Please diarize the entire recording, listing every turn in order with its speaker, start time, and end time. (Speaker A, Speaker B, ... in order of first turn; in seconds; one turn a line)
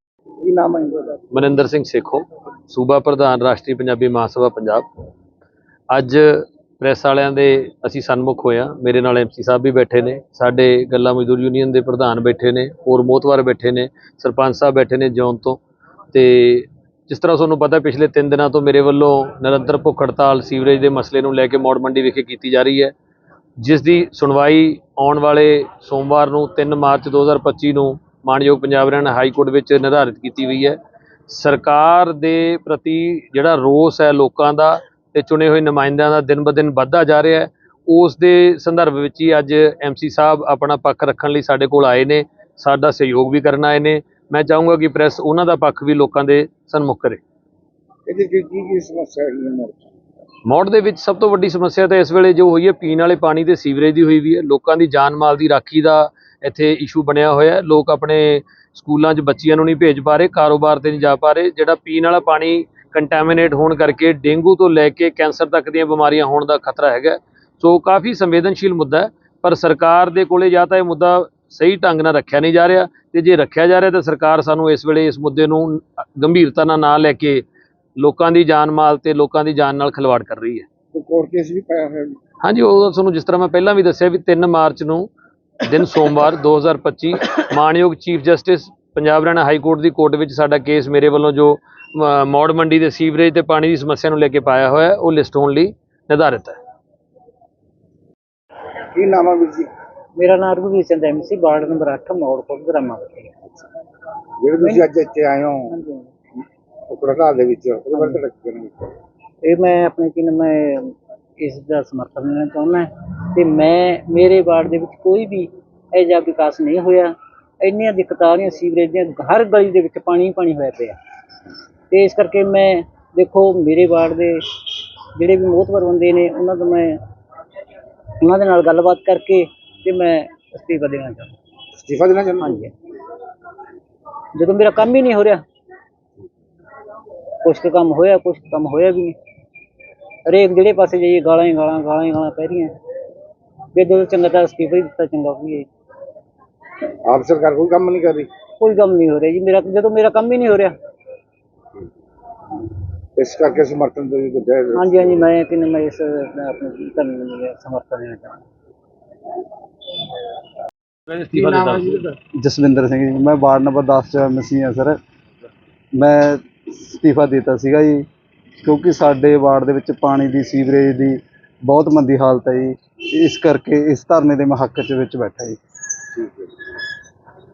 Speaker A: 0.4-1.2
Speaker B: 1.3-4.8
Speaker B: 5.9-15.6
Speaker B: 16.1-22.9
Speaker B: 23.6-30.8
Speaker B: 31.3-47.2
Speaker A: 48.1-49.9
Speaker B: 50.5-77.4
Speaker B: 78.0-80.7
Speaker A: 80.9-82.2
Speaker B: 82.4-85.1
Speaker B: 85.6-96.6
Speaker A: 98.9-99.7
Speaker C: 100.2-103.3
Speaker A: 104.4-105.7
Speaker C: 104.6-104.9
Speaker C: 105.7-106.1
Speaker A: 106.9-108.9
Speaker C: 109.4-121.0
Speaker C: 121.9-124.4
Speaker C: 125.2-127.0
Speaker C: 128.2-131.3
Speaker A: 131.8-132.6
Speaker C: 132.4-132.7
Speaker C: 134.4-135.4
Speaker C: 137.4-139.2
Speaker C: 140.3-142.7
Speaker C: 143.7-145.7
Speaker A: 147.0-148.3
Speaker C: 148.6-150.7
Speaker A: 153.2-155.3
Speaker C: 154.7-158.4
Speaker B: 161.1-162.1
Speaker D: 162.4-165.0
Speaker D: 165.9-168.0
Speaker D: 168.6-175.6
Speaker A: 176.2-176.4